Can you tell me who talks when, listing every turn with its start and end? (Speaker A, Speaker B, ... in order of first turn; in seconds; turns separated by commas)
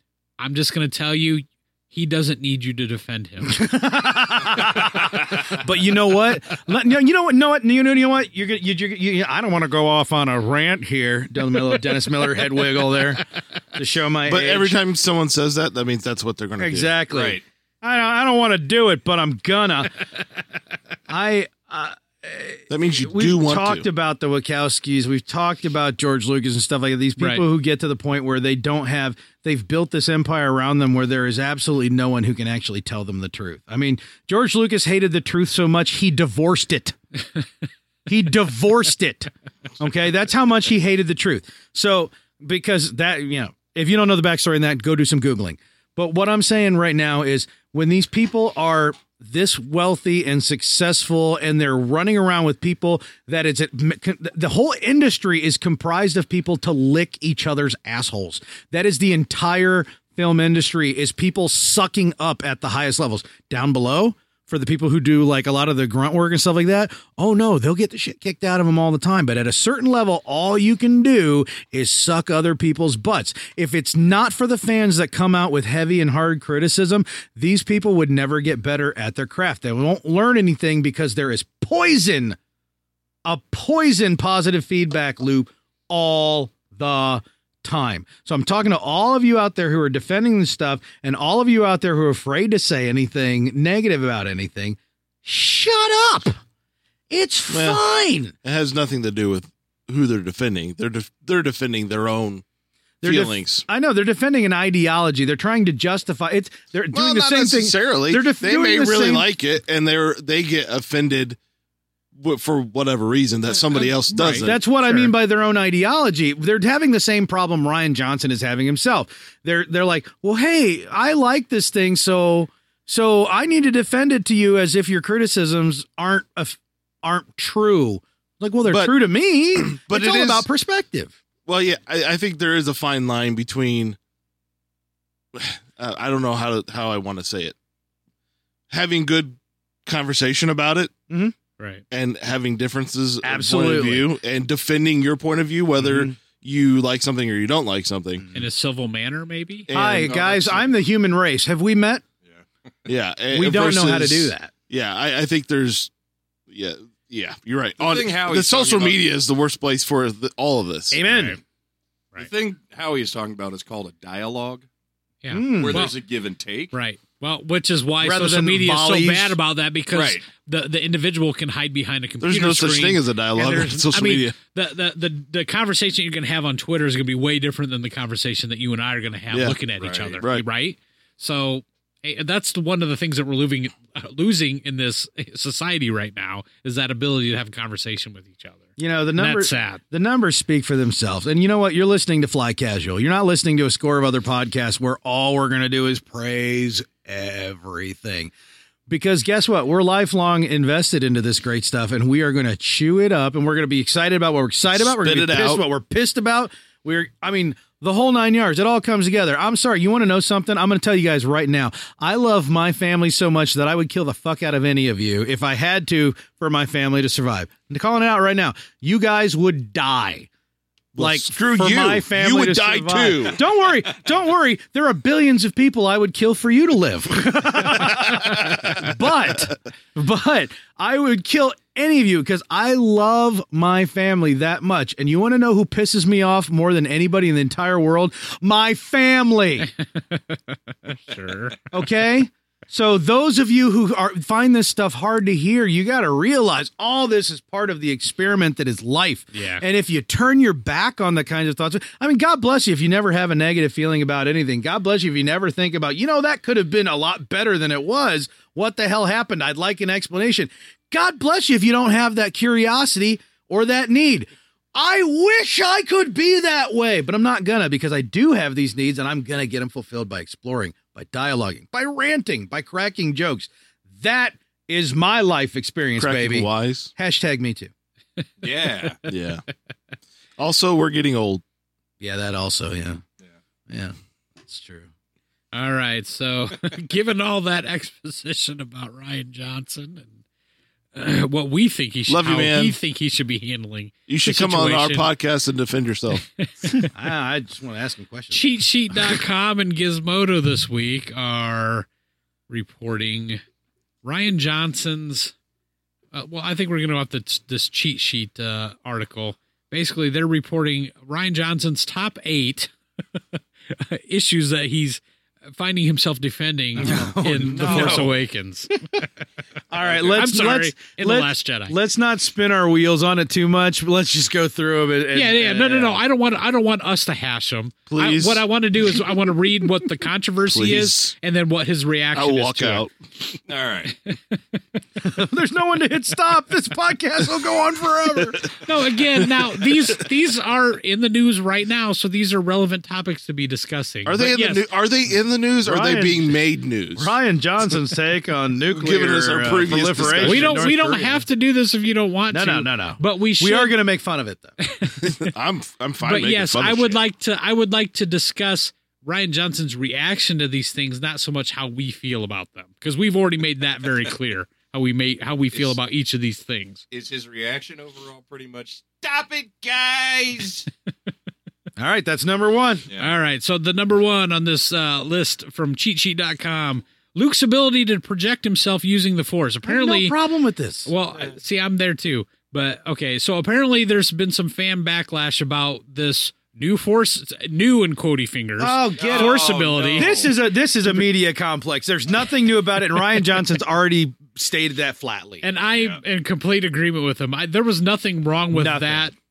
Speaker A: 0.4-3.6, Speaker B: 3.5-14.8, Speaker C: 14.3-17.0, Speaker B: 16.6-20.0, Speaker D: 17.1-17.4, Speaker B: 21.1-37.0, Speaker C: 22.7-23.9, Speaker A: 27.2-27.4, Speaker B: 38.1-82.4, Speaker B: 83.2-96.4, Speaker B: 97.1-98.3, Speaker C: 97.5-97.8, Speaker C: 98.4-102.4, Speaker B: 103.0-109.3, Speaker C: 103.0-103.6, Speaker C: 106.9-111.4, Speaker C: 112.2-114.6, Speaker A: 113.7-115.1, Speaker B: 114.4-131.1, Speaker C: 128.7-128.9, Speaker C: 129.6-130.5, Speaker C: 131.5-134.0, Speaker C: 135.3-137.6, Speaker C: 138.7-140.9, Speaker A: 141.6-141.8, Speaker C: 141.9-148.3, Speaker B: 143.2-144.1, Speaker B: 145.8-146.1, Speaker A: 148.3-149.7, Speaker C: 149.7-150.1, Speaker B: 149.7-152.0, Speaker D: 149.8-150.7, Speaker C: 152.9-155.9, Speaker B: 153.3-154.5, Speaker C: 156.5-161.0, Speaker D: 157.8-159.0, Speaker B: 160.9-161.4, Speaker A: 161.1-161.4, Speaker D: 162.2-164.7, Speaker A: 165.2-166.0, Speaker B: 165.3-165.9, Speaker D: 165.4-166.7, Speaker A: 166.7-189.8, Speaker B: 168.0-169.4, Speaker D: 169.9-170.2, Speaker C: 172.2-174.3, Speaker C: 179.3-179.6, Speaker D: 179.8-180.2, Speaker B: 188.8-198.3, Speaker B: 198.9-220.3, Speaker C: 204.8-205.6, Speaker C: 220.9-223.4, Speaker B: 221.0-239.7, Speaker A: 240.1-241.6, Speaker B: 241.7-277.7, Speaker A: 249.3-249.6, Speaker C: 276.0-276.9, Speaker D: 278.4-279.0, Speaker C: 279.1-279.4, Speaker C: 280.4-281.4, Speaker B: 282.0-283.0, Speaker B: 283.7-283.9, Speaker B: 284.5-284.9, Speaker A: 285.5-290.1, Speaker A: 290.9-295.1, Speaker C: 292.1-292.8, Speaker C: 294.1-296.2, Speaker A: 296.4-296.9, Speaker B: 296.9-298.4, Speaker A: 298.3-301.9, Speaker A: 302.5-303.4, Speaker A: 304.0-305.3, Speaker A: 306.1-312.7, Speaker A: 313.7-318.9, Speaker B: 316.8-318.1, Speaker D: 316.9-318.1, Speaker B: 319.7-326.0, Speaker D: 319.8-320.1, Speaker A: 320.1-321.8, Speaker A: 325.1-332.9, Speaker C: 327.9-328.4, Speaker C: 330.5-331.1, Speaker C: 332.1-332.9, Speaker D: 333.5-333.9, Speaker A: 333.9-334.8, Speaker B: 335.0-338.5, Speaker A: 338.6-344.6, Speaker C: 344.1-347.1, Speaker B: 345.6-346.4, Speaker B: 346.9-351.2, Speaker C: 348.7-350.7, Speaker A: 350.2-353.7, Speaker B: 352.3-354.6, Speaker A: 354.6-355.3, Speaker C: 355.0-357.0, Speaker A: 356.0-366.8, Speaker D: 366.9-370.7, Speaker B: 371.8-372.9, Speaker D: 372.9-373.1, Speaker A: 373.0-380.2, Speaker B: 379.6-380.9, Speaker A: 380.9-390.2, Speaker B: 388.6-395.5, Speaker D: 389.0-390.4, Speaker A: 395.4-399.1, Speaker D: 395.7-396.0, Speaker B: 398.5-399.1